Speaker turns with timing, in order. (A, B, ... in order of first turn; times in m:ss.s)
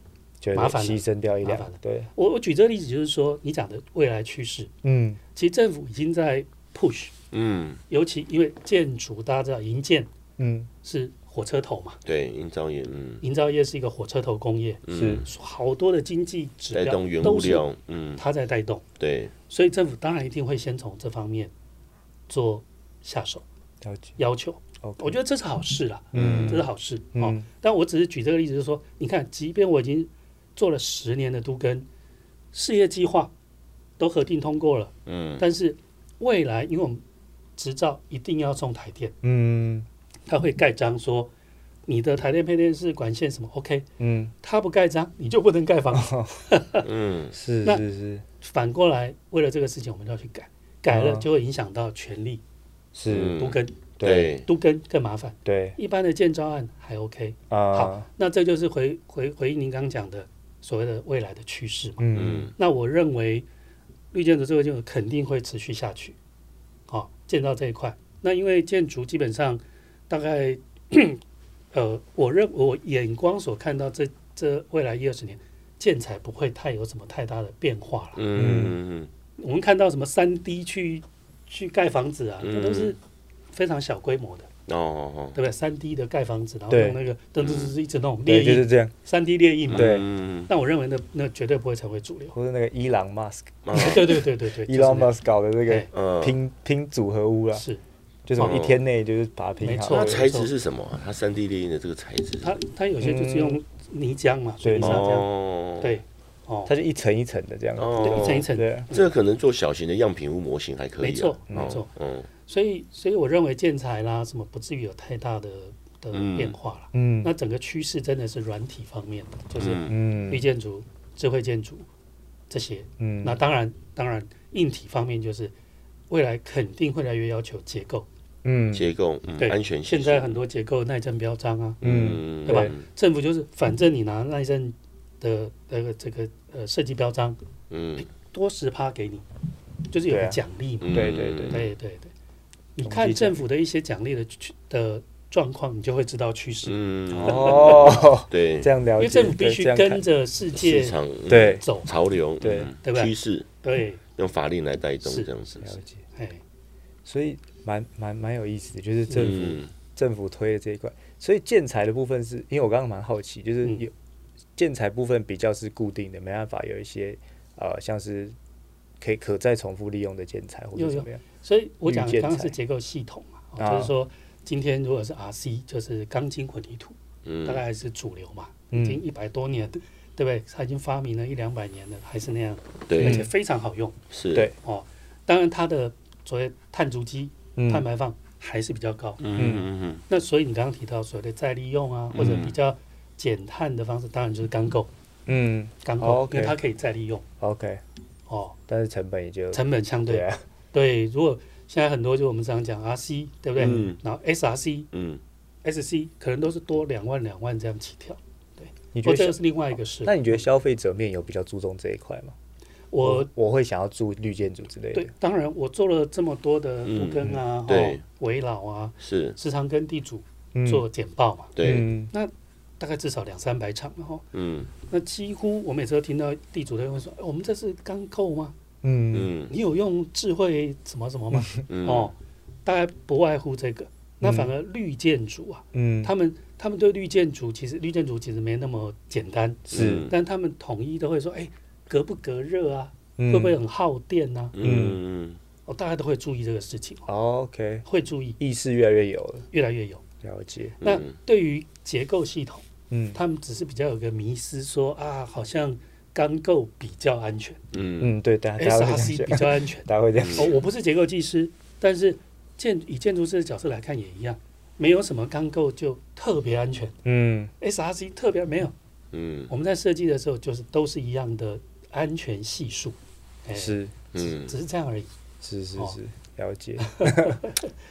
0:00.4-0:02.1 A
0:00.5-0:04.7 B
0:04.8-0:05.2 A
0:05.3-0:07.1 B
0:07.3-0:07.8 C
0:07.9-0:10.1 B
0:10.4-0:10.7 A
0:10.8-0:12.0 B
0:12.0-0:13.2 C
0:13.2-0:17.6 B
0:14.8-0:15.3 C
0:14.9-0:15.2 A
0:16.7-0:18.2 C
0:18.2-0:18.8 B
0:19.0-0:19.3 C
0:19.5-0:21.5 B
0:22.3-0:23.4 B
0:23.8-0:24.1 A
0:24.2-0:31.9 B
0:24.8-0:25.2 A
0:26.1-0:26.6 C
0:26.1-0:27.4 A
0:32.5-0:33.3 B
0:34.0-0:37.0 B
0:35.0-0:35.4 C
0:37.6-0:39.1 B
0:39.2-0:39.8 A
0:40.3-0:41.3 B
0:41.9-0:43.9 B
0:44.0-0:44.3 A
0:44.4-0:46.9 B
0:45.9-0:46.3 A
0:46.8-0:47.3 C
0:47.3-0:48.2 A
0:48.4-0:52.4 B
0:50.9-0:51.3 A
0:52.9-0:53.4 A
0:53.1-0:54.4 C
0:53.2-1:03.5 B
0:54.0-0:54.3 A
0:55.4-0:55.8 A
0:57.5-0:58.1 A
1:02.0-1:02.5 A
1:02.1-1:02.5 C
1:04.1-1:06.2 B
1:06.9-1:11.2 B
1:11.7-1:18.2 B
1:18.2-1:19.1 C
1:18.4-1:18.8 A
1:19.4-1:23.0 B
1:22.4-1:22.9 C
1:23.5-1:24.5 B
1:24.7-1:25.4 C
1:25.3-1:32.4 B
1:26.7-1:27.0 A
1:27.4-1:27.7 C
1:28.2-1:28.9 A
1:29.7-1:30.5 C
1:29.7-1:30.0 A
1:32.3-1:37.6 A
1:33.6-1:34.0 C
1:33.7-1:35.1 B
1:35.9-1:36.4 C
1:37.5-1:37.8 B
1:38.3-1:40.3 A
1:38.4-1:38.8 C
1:39.6-1:40.5 B
1:39.9-1:42.6 C
1:42.4-1:45.3 B
1:43.0-1:43.6 A
1:44.6-1:45.1 A
1:44.8-1:46.0 C
1:45.8-1:46.7 B
1:46.6-1:48.9 A
1:47.8-1:52.3 C
1:48.0-1:49.1 B
1:51.0-1:51.9 B
1:51.5-1:51.8 A
1:52.4-2:01.9 B
1:56.1-1:56.5 C
1:56.9-1:57.3 A
1:59.5-2:00.0 C
1:59.9-2:00.5 A
2:02.5-2:05.5 B
2:03.0-2:03.4 A
2:06.1-2:08.1 B
2:08.4-2:08.9 A
2:08.7-2:10.4 C
2:09.4-2:11.8 B
2:11.8-2:12.7 A
2:11.8-2:12.8 C
2:12.4-2:17.4 B
2:17.7-2:18.1 C
2:18.0-2:19.2 B
2:19.9-2:22.1 B
2:20.1-2:21.6 A
2:20.8-2:21.7 C
2:22.8-2:28.0 B
2:22.8-2:23.4 A
2:26.6-2:28.7 C
2:27.1-2:30.0 A
2:29.0-2:31.0 B
2:30.5-2:33.5 C
2:31.3-2:31.6 A
2:31.6-2:31.9 B
2:32.4-2:32.7 A
2:32.8-2:34.0 B
2:34.2-2:35.7 C
2:35.0-2:35.3 B
2:35.6-2:36.0 A
2:36.1-2:36.4 B
2:37.0-2:43.9 A
2:39.1-2:39.7 C
2:44.6-2:48.4 A
2:49.0-2:51.2 A
2:50.7-3:04.0 B
2:51.8-2:52.6 A
2:53.6-2:53.9 A
2:57.2-2:57.6 C
2:58.7-2:59.0 A
3:02.9-3:03.3 C
3:03.0-3:03.3 A
3:04.1-3:04.5 C
3:04.6-3:09.2 B
3:07.6-3:07.8 A
3:09.2-3:10.0 C
3:09.4-3:09.7 A
3:10.1-3:14.9 B
3:12.1-3:12.6 C
3:15.3-3:16.6 A
3:15.8-3:17.2 B
3:17.4-3:17.8 A
3:18.3-3:18.6 B
3:18.7-3:20.4 A
3:19.5-3:24.9 B
3:23.6-3:24.0 C
3:24.9-3:25.2 C
3:25.6-3:30.4 B
3:28.9-3:29.4 A
3:30.0-3:32.3 A
3:32.9-3:33.3 B
3:33.0-3:35.1 A
3:34.9-3:44.3 B
3:36.8-3:38.0 C
3:39.0-3:39.4 C
3:40.5-3:40.8 A
3:41.6-3:41.9 C
3:41.6-3:42.1 A
3:44.3-3:44.7 C
3:44.9-3:48.5 B
3:48.8-3:49.3 A
3:49.1-3:49.6 C
3:49.5-4:04.6 B
3:51.7-3:52.1 C
3:54.2-3:54.5 A
3:55.7-3:56.1 A
3:59.7-4:00.1 A
3:59.7-4:00.2 C
4:03.2-4:03.6 A
4:04.5-4:05.4 C
4:04.6-4:05.0 A
4:05.6-4:07.1 B
4:07.1-4:07.8 A
4:07.8-4:08.4 B
4:08.4-4:09.5 A
4:09.5-4:10.0 B
4:10.2-4:10.8 A
4:10.8-4:11.1 C
4:10.8-4:12.6 B
4:12.9-4:13.2 A
4:13.1-4:17.6 B
4:17.7-4:18.1 C
4:18.0-4:20.5 A
4:18.6-4:27.0 B
4:20.2-4:20.6 C
4:27.0-4:27.5 A
4:27.6-4:28.7 B
4:29.1-4:29.5 C
4:29.5-4:35.1 B
4:33.5-4:33.9 A
4:34.1-4:34.6 C
4:35.4-4:37.4 A
4:36.8-4:37.7 B